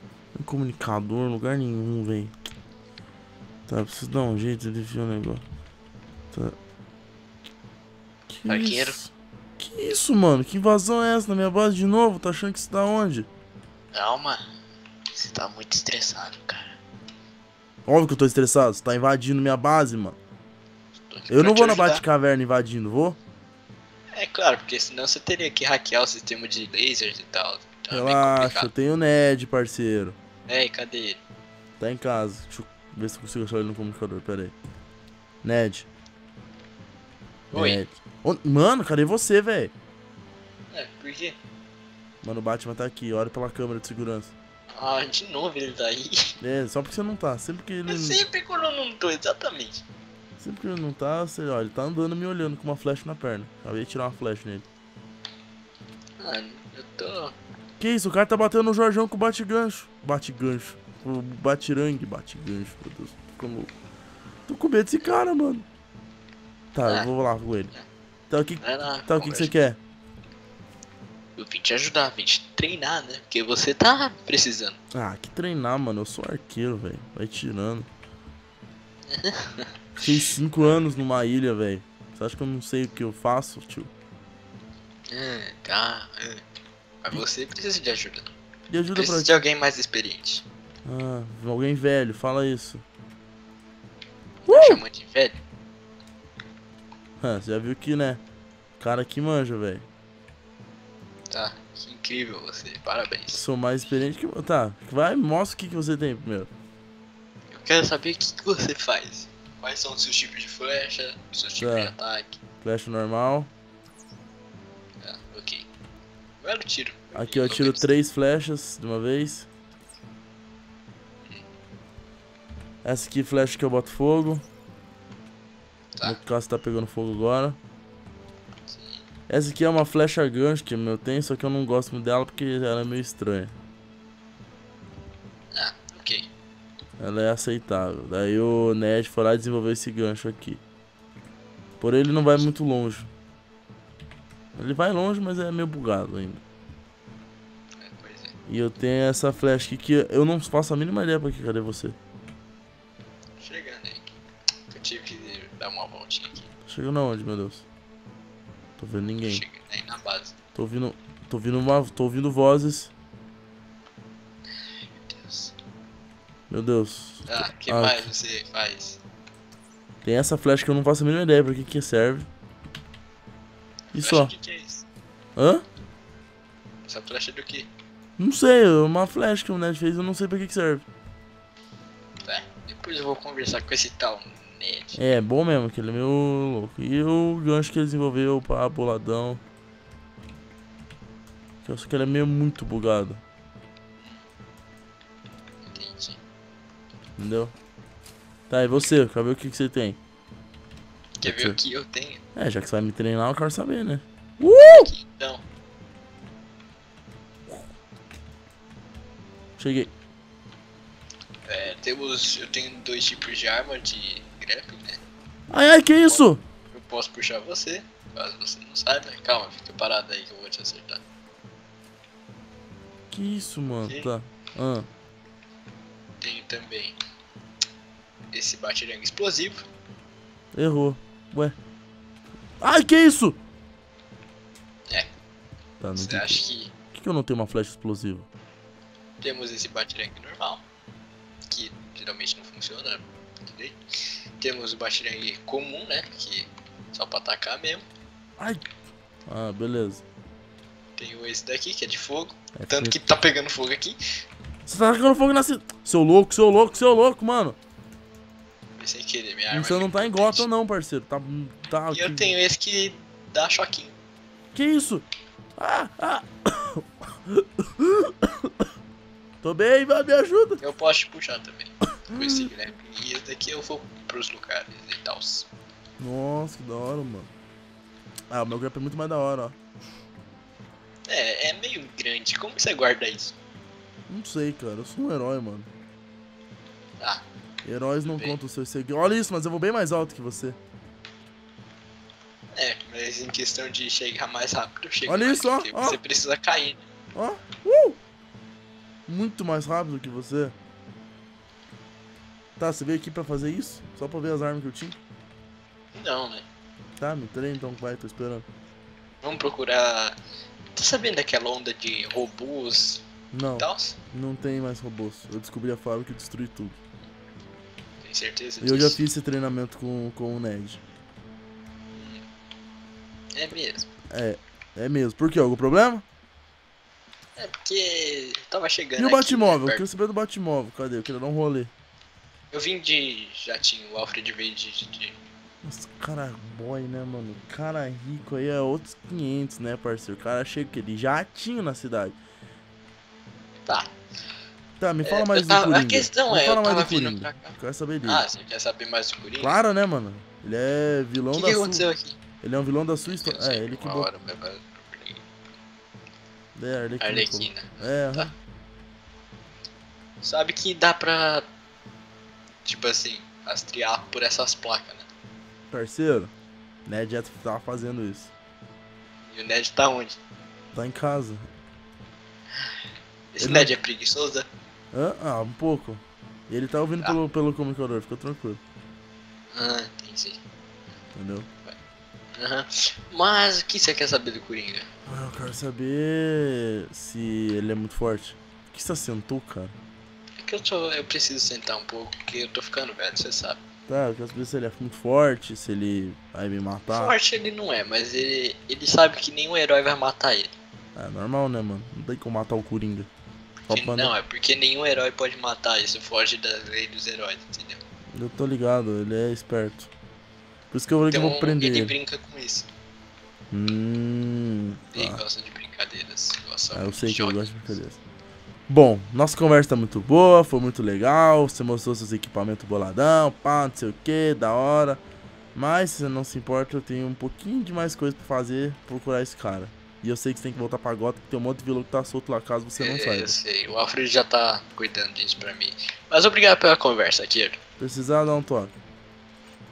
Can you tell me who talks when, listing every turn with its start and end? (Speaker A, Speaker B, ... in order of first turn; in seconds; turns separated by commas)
Speaker A: 0.3-2.3, Speaker A: 3.7-5.4, Speaker A: 6.3-6.6, Speaker A: 8.3-13.3, Speaker B: 8.4-9.0, Speaker B: 13.9-14.4, Speaker B: 15.1-16.7, Speaker A: 17.9-20.2, Speaker B: 21.1-22.0, Speaker A: 21.3-23.2, Speaker B: 24.1-28.7, Speaker A: 27.9-30.2, Speaker B: 30.5-31.2, Speaker A: 31.8-34.5, Speaker A: 35.4-35.9, Speaker B: 37.5-37.8, Speaker A: 37.5-39.7, Speaker B: 40.7-41.4, Speaker A: 42.2-44.3, Speaker B: 44.8-46.3, Speaker A: 46.4-48.2, Speaker B: 47.9-49.8, Speaker A: 50.4-54.7, Speaker B: 56.2-57.3, Speaker A: 57.8-63.7, Speaker A: 64.5-65.7, Speaker A: 66.7-67.7, Speaker A: 68.3-69.8, Speaker B: 68.6-69.6, Speaker B: 71.4-74.8, Speaker A: 74.9-77.9, Speaker B: 79.1-79.7, Speaker A: 79.9-83.9, Speaker B: 85.1-86.4, Speaker B: 87.0-88.3, Speaker A: 88.7-89.4, Speaker B: 88.9-90.4, Speaker A: 90.8-92.8, Speaker B: 94.5-95.4, Speaker A: 94.5-94.8, Speaker A: 97.2-98.2, Speaker A: 98.8-99.8, Speaker B: 101.3-103.4, Speaker A: 103.3-106.5, Speaker B: 107.5-112.4, Speaker A: 111.6-111.9, Speaker A: 112.6-113.5, Speaker B: 115.0-115.7, Speaker B: 116.4-117.9, Speaker A: 117.1-119.5, Speaker A: 122.8-124.4, Speaker A: 126.0-127.6, Speaker B: 128.7-129.1, Speaker A: 129.3-133.5, Speaker B: 135.5-136.3, Speaker A: 137.0-140.6, Speaker A: 141.8-143.1, Speaker A: 144.6-146.4, Speaker B: 147.8-148.3, Speaker A: 148.5-152.0, Speaker B: 153.4-154.1, Speaker B: 154.7-156.5, Speaker A: 156.7-157.6, Speaker A: 158.8-159.4, Speaker B: 159.2-160.3, Speaker A: 160.5-162.9, Speaker B: 165.1-165.5, Speaker A: 166.5-168.1, Speaker B: 167.3-169.0, Speaker A: 170.0-172.3, Speaker B: 173.9-174.8, Speaker A: 173.9-174.3, Speaker A: 175.3-175.6, Speaker B: 176.8-177.7, Speaker A: 178.2-180.8, Speaker B: 182.2-185.0, Speaker A: 184.9-189.4, Speaker A: 191.6-193.2, Speaker B: 195.7-196.2, Speaker A: 197.2-197.5, Speaker A: 198.5-200.0, Speaker B: 201.2-202.2, Speaker A: 201.2-201.6, Speaker A: 202.3-204.9, Speaker B: 204.6-205.4, Speaker A: 209.6-209.9, Speaker B: 211.4-215.0, Speaker A: 215.5-216.4, Speaker B: 216.1-221.0, Speaker A: 223.1-224.9, Speaker B: 223.8-224.1, Speaker B: 226.2-227.0, Speaker B: 228.3-229.7, Speaker A: 230.5-231.6, Speaker A: 232.6-233.4, Speaker A: 235.8-236.4, Speaker B: 235.9-236.7, Speaker A: 236.9-238.3, Speaker B: 239.2-240.6, Speaker B: 241.5-243.8, Speaker B: 244.4-247.8, Speaker A: 248.4-248.6, Speaker A: 249.3-250.0, Speaker B: 251.0-254.0, Speaker A: 252.5-253.0, Speaker A: 254.7-257.6, Speaker B: 258.8-260.5, Speaker A: 259.5-262.3, Speaker B: 261.9-263.9, Speaker A: 264.5-268.6, Speaker A: 269.4-270.6, Speaker B: 270.6-275.5, Speaker A: 272.1-272.5, Speaker A: 276.0-277.3, Speaker A: 278.3-279.6, Speaker B: 281.1-283.3, Speaker A: 284.1-285.7, Speaker A: 287.6-290.6, Speaker B: 288.0-288.3, Speaker B: 292.5-296.8, Speaker A: 295.1-296.0, Speaker A: 297.1-298.0, Speaker A: 299.1-300.5, Speaker A: 302.6-305.0, Speaker B: 305.9-306.4, Speaker A: 307.0-308.5, Speaker B: 309.2-310.2, Speaker B: 310.7-313.0, Speaker A: 313.3-316.8, Speaker B: 313.6-314.0, Speaker B: 318.0-319.0, Speaker A: 318.6-320.8, Speaker B: 321.9-322.2, Speaker B: 323.3-323.9, Speaker A: 324.1-326.0, Speaker B: 327.4-329.8, Speaker A: 329.0-331.7, Speaker B: 332.5-335.1, Speaker A: 335.6-342.2, Speaker B: 343.6-343.9, Speaker A: 344.8-348.2, Speaker B: 345.0-349.6, Speaker A: 349.4-351.9, Speaker B: 351.3-352.2, Speaker A: 352.4-354.1, Speaker B: 353.1-355.2, Speaker A: 356.6-358.3, Speaker B: 357.0-358.3, Speaker B: 360.2-361.4, Speaker B: 362.6-365.1, Speaker A: 365.7-366.3, Speaker A: 366.9-368.3, Speaker B: 369.3-370.2, Speaker A: 370.7-371.5, Speaker B: 373.3-374.5, Speaker A: 373.4-373.7, Speaker A: 374.9-378.6, Speaker B: 379.5-380.4, Speaker A: 381.1-381.5, Speaker B: 382.4-384.9, Speaker A: 385.1-389.8, Speaker B: 390.4-393.6, Speaker A: 393.9-397.1, Speaker B: 396.9-400.5, Speaker A: 400.9-403.1, Speaker A: 403.7-404.1, Speaker B: 403.7-407.8, Speaker A: 408.1-409.9, Speaker A: 410.7-411.9, Speaker B: 411.1-412.7, Speaker A: 413.5-415.2, Speaker B: 414.9-417.4, Speaker A: 416.7-418.0, Speaker A: 418.7-425.0, Speaker A: 425.5-433.3, Speaker B: 432.8-437.6, Speaker A: 437.8-438.7